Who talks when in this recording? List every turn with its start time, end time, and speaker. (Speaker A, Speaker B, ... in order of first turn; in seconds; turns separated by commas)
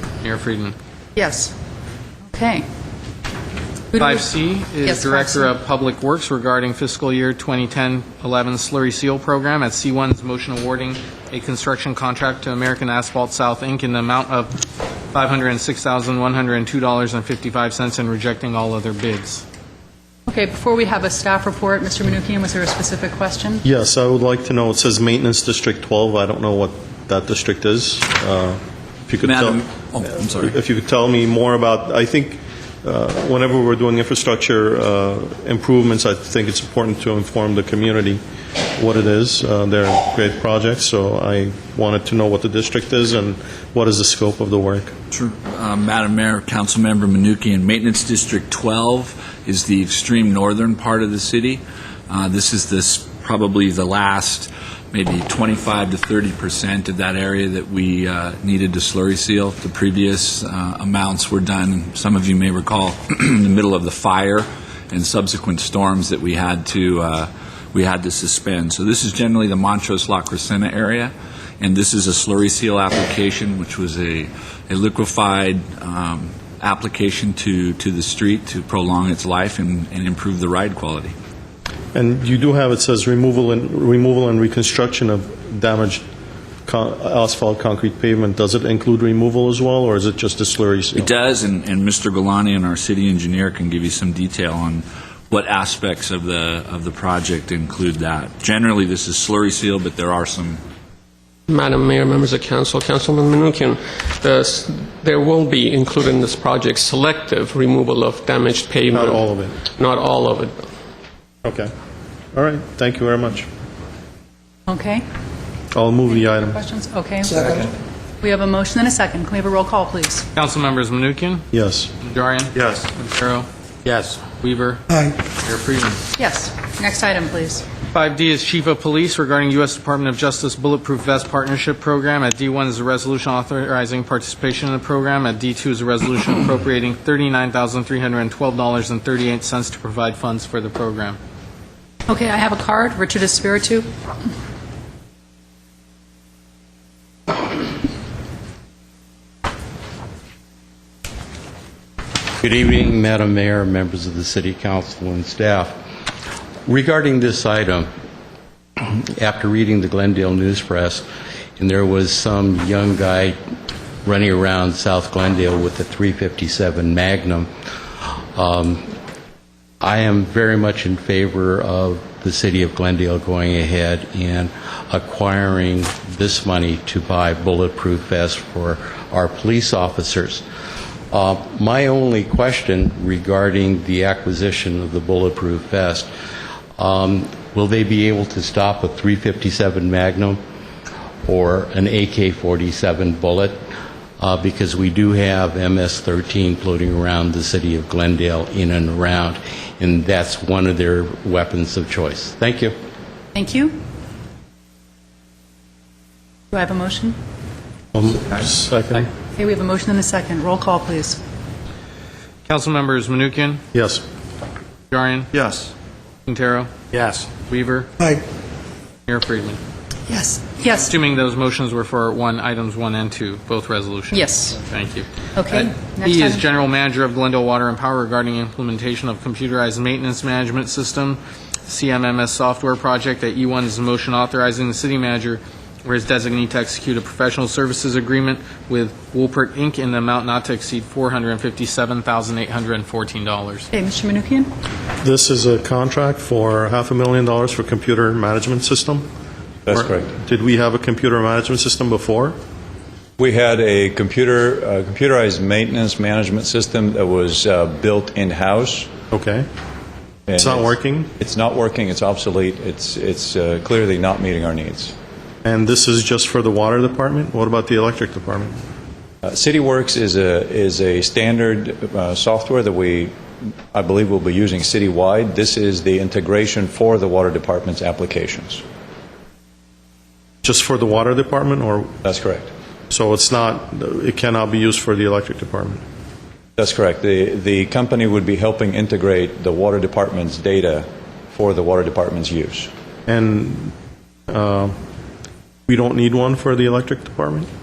Speaker A: 0.2-0.7, Speaker B: 1.1-1.5, Speaker B: 2.3-2.7, Speaker B: 3.9-5.5, Speaker A: 4.0-14.6, Speaker A: 15.1-19.4, Speaker B: 20.3-23.6, Speaker C: 23.6-29.6, Speaker D: 29.2-30.6, Speaker C: 30.3-38.2, Speaker C: 38.8-44.9, Speaker D: 45.1-81.2, Speaker C: 81.9-86.0, Speaker C: 86.7-91.1, Speaker D: 90.9-100.6, Speaker E: 101.5-109.2, Speaker C: 108.9-109.5, Speaker E: 109.8-110.5, Speaker C: 111.4-111.7, Speaker C: 112.3-113.5, Speaker B: 114.7-115.0, Speaker C: 115.7-116.6, Speaker B: 116.1-117.7, Speaker B: 118.2-120.3, Speaker A: 120.3-121.5, Speaker C: 121.5-121.9, Speaker A: 122.0-123.5, Speaker A: 124.1-124.8, Speaker A: 125.3-126.0, Speaker B: 126.2-127.7, Speaker A: 127.9-141.2, Speaker B: 142.1-143.9, Speaker F: 152.4-155.8, Speaker F: 156.7-157.9, Speaker F: 158.8-161.1, Speaker F: 161.6-163.4, Speaker F: 164.0-167.5, Speaker F: 168.3-168.9, Speaker F: 169.8-180.4, Speaker F: 181.1-186.1, Speaker F: 186.8-190.4, Speaker F: 191.2-193.6, Speaker F: 194.2-202.7, Speaker B: 203.3-203.8, Speaker B: 206.5-207.2, Speaker C: 207.9-209.1, Speaker B: 209.2-211.2, Speaker A: 212.4-213.6, Speaker C: 213.7-214.1, Speaker A: 214.9-215.3, Speaker A: 216.2-217.9, Speaker A: 219.1-219.6, Speaker B: 220.1-220.9, Speaker A: 220.8-243.7, Speaker B: 224.1-224.6, Speaker B: 225.3-226.4, Speaker B: 243.7-244.5, Speaker C: 245.0-249.1, Speaker G: 249.7-250.2, Speaker C: 249.7-252.4, Speaker G: 253.2-258.9, Speaker C: 259.1-259.5, Speaker G: 260.3-264.9, Speaker C: 260.3-261.1, Speaker C: 265.4-268.6, Speaker G: 269.2-273.1, Speaker G: 273.7-278.6, Speaker C: 280.4-281.9, Speaker G: 282.0-282.5, Speaker C: 282.9-285.8, Speaker G: 286.6-292.7, Speaker C: 293.1-293.7, Speaker C: 294.3-294.8, Speaker C: 295.7-297.5